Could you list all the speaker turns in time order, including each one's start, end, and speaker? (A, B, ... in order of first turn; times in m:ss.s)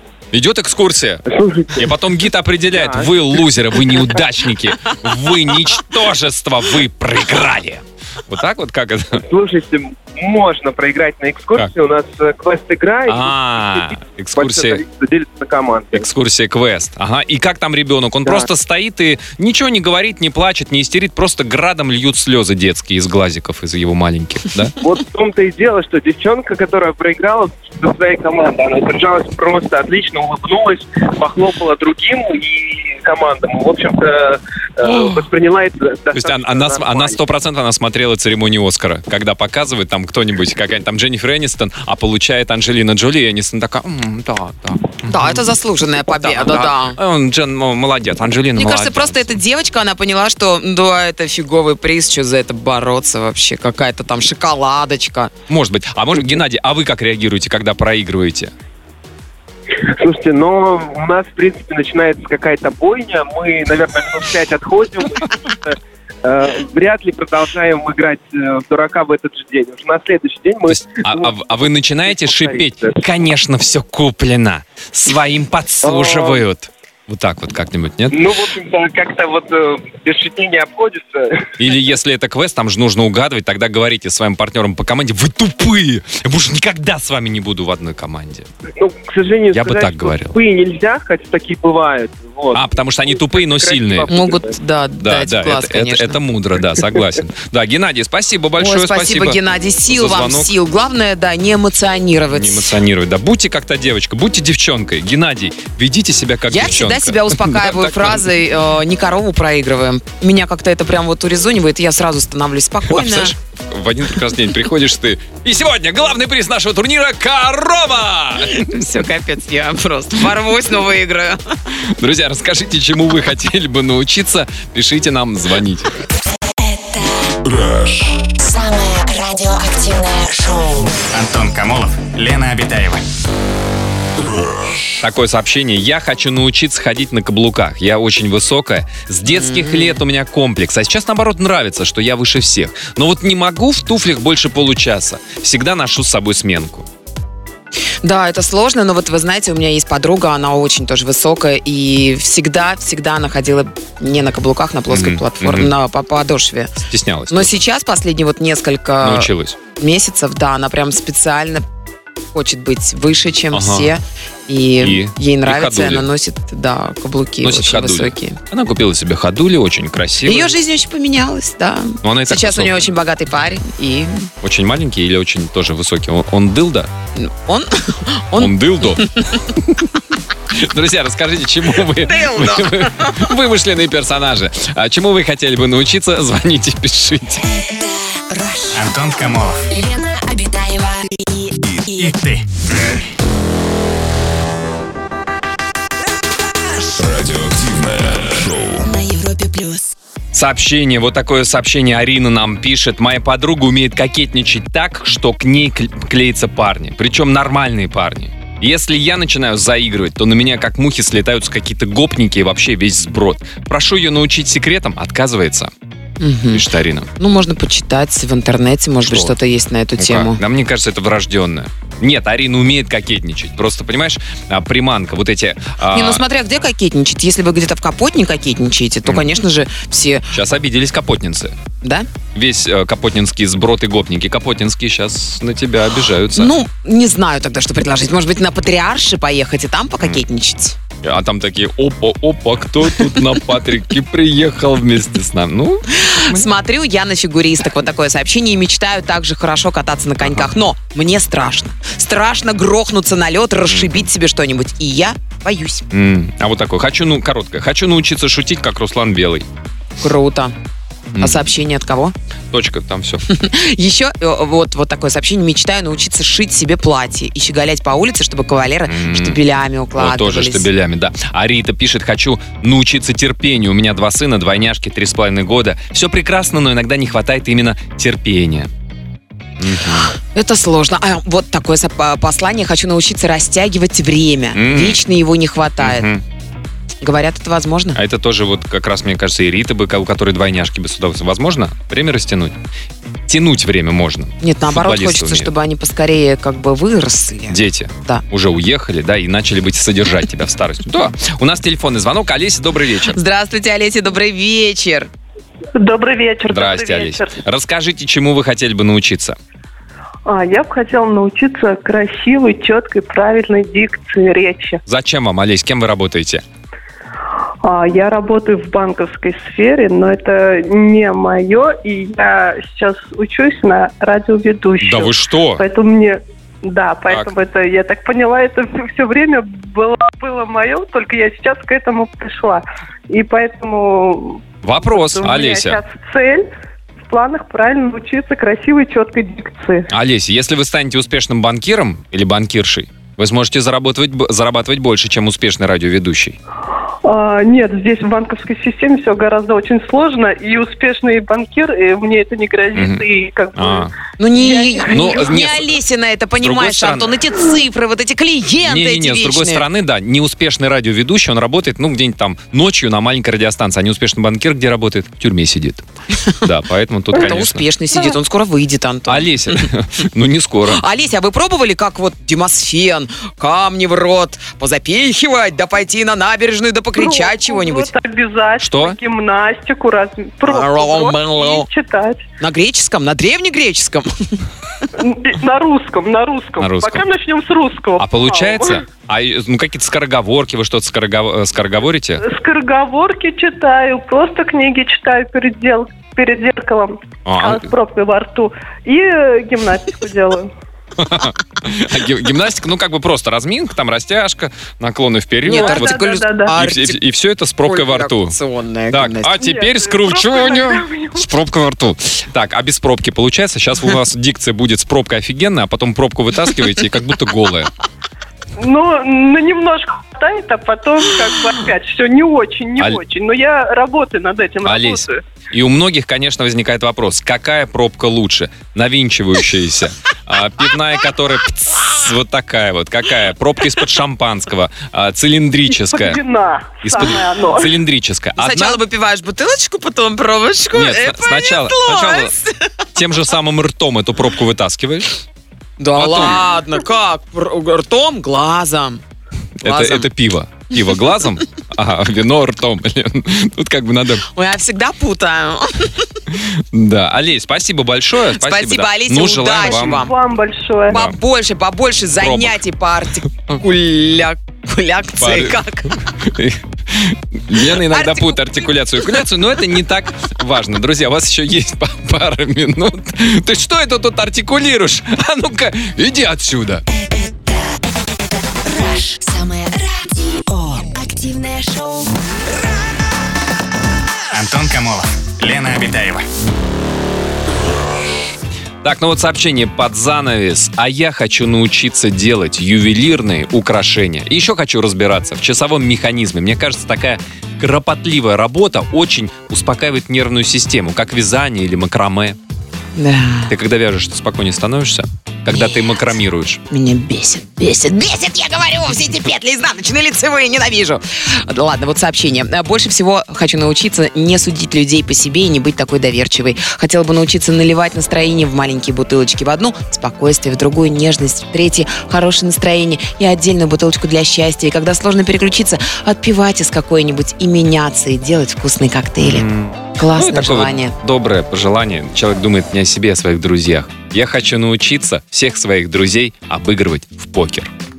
0:00.3-0:09.2 A
0:01.2-0:02.1 B
0:02.7-0:03.4 B
0:09.2-0:16.0 B
0:13.1-0:14.8 A
0:15.9-0:24.8 A
0:18.2-0:18.5 B
0:24.8-0:37.2 B
0:34.8-0:35.2 A
0:36.1-0:49.4 A
0:45.0-0:47.0 C
0:48.6-0:55.3 C
0:55.5-0:58.5 A
0:59.8-1:13.0 B
1:10.7-1:18.2 A
1:15.8-1:16.4 B
1:18.1-1:21.5 B
1:21.6-1:28.5 A
1:28.8-1:34.6 B
1:29.5-1:30.4 A
1:32.5-1:34.1 A
1:34.1-1:36.2 C
1:35.0-1:40.5 A
1:38.6-1:42.7 C
1:42.3-1:48.3 A
1:46.5-1:53.3 C
1:52.9-1:58.8 A
1:58.4-2:01.4 C
2:02.0-2:05.9 A
2:06.6-2:07.3 D
2:08.2-2:11.0 D
2:11.1-2:13.0 E
2:15.0-2:26.9 A
2:19.3-2:20.0 C
2:28.0-2:36.7 C
2:34.9-2:35.7 A
2:36.8-2:37.6 A
2:37.3-2:41.6 C
2:39.0-2:39.6 A
2:42.3-2:48.4 C
2:43.5-2:43.9 A
2:44.8-2:46.1 A
2:47.4-2:50.5 A
2:50.2-2:54.3 C
2:52.0-2:52.9 A
2:54.4-2:56.9 A
2:57.2-2:59.3 C
2:58.4-2:59.9 A
3:00.5-3:07.4 A
3:02.0-3:03.2 C
3:07.4-3:08.8 D
3:08.7-3:09.6 E
3:09.7-3:12.2 D
3:12.0-3:12.5 E
3:16.9-3:18.8 F
3:18.8-3:19.9 D
3:20.3-3:35.7 A
3:36.2-3:40.4 C
3:36.5-3:37.1 A
3:39.0-3:39.4 A
3:40.0-3:46.2 A
3:45.9-3:50.3 C
3:50.3-3:51.6 A
3:51.8-3:52.1 C
3:52.3-3:56.5 A
3:56.3-4:00.8 C
4:01.0-4:06.5 A
4:05.9-4:15.9 C
4:10.2-4:10.5 A
4:13.6-4:14.1 A
4:15.9-4:19.5 A
4:20.0-4:20.5 C
4:21.1-4:21.5 A
4:21.2-4:22.1 C
4:22.5-4:23.2 A
4:23.3-4:30.7 C
4:28.8-4:29.4 A
4:30.0-4:38.7 A
4:39.6-4:40.1 A
4:40.3-4:46.1 C
4:44.5-4:45.0 A
4:45.8-4:46.2 A
4:47.0-4:48.0 C
4:47.9-4:52.6 A
4:53.3-4:55.5 A
4:54.4-4:58.2 C
4:57.5-5:03.2 A
5:03.1-5:05.1 C
5:05.8-5:07.4 G
5:06.5-5:09.4 A
5:10.2-5:14.8 G
5:14.8-5:16.4 A
5:17.6-5:36.5 G
5:24.8-5:25.6 A
5:34.6-5:35.8 A
5:37.0-5:39.9 G
5:39.9-5:46.4 A
5:47.0-5:55.3 G
5:52.7-5:53.9 A
5:54.2-5:59.6 C
5:54.9-5:55.8 A
5:56.4-5:57.2 A
5:58.6-6:05.8 A
6:06.4-6:07.7 A
6:07.1-6:09.6 C
6:09.1-6:10.8 A
6:10.7-6:17.9 C
6:16.9-6:22.2 G
6:18.6-6:19.0 A
6:20.4-6:21.7 C
6:22.4-6:24.1 C
6:25.0-6:28.8 G
6:26.6-6:27.1 A
6:28.0-6:32.2 A
6:32.2-6:40.5 G
6:37.2-6:37.7 A
6:41.0-6:48.4 A
6:45.4-6:46.6 G
6:45.5-6:47.0 C
6:47.6-6:49.4 C
6:48.9-6:57.7 A
6:49.3-6:51.3 G
6:58.6-7:05.2 G
7:04.6-7:16.2 A
7:15.7-7:17.8 G
7:16.8-7:18.8 A
7:18.4-7:22.6 C
7:20.7-7:22.3 A
7:22.9-7:25.2 A
7:25.8-7:29.0 C
7:25.9-7:26.5 A
7:29.6-7:34.2 A
7:29.6-7:30.1 C
7:34.3-7:36.1 C
7:36.3-7:40.0 A
7:38.4-7:40.1 C
7:39.6-7:41.0 G
7:40.9-7:41.2 A
7:40.9-7:46.0 C
7:42.2-7:42.6 A
7:45.2-7:56.8 A
7:47.6-7:48.6 C
7:56.9-7:57.7 D
7:58.5-8:02.2 D
8:04.3-8:06.2 E
8:08.8-8:22.4 A
8:23.0-8:23.5 C
8:23.5-8:26.6 A
8:25.5-8:25.8 C
8:26.7-8:50.9 C
8:49.2-8:57.7 A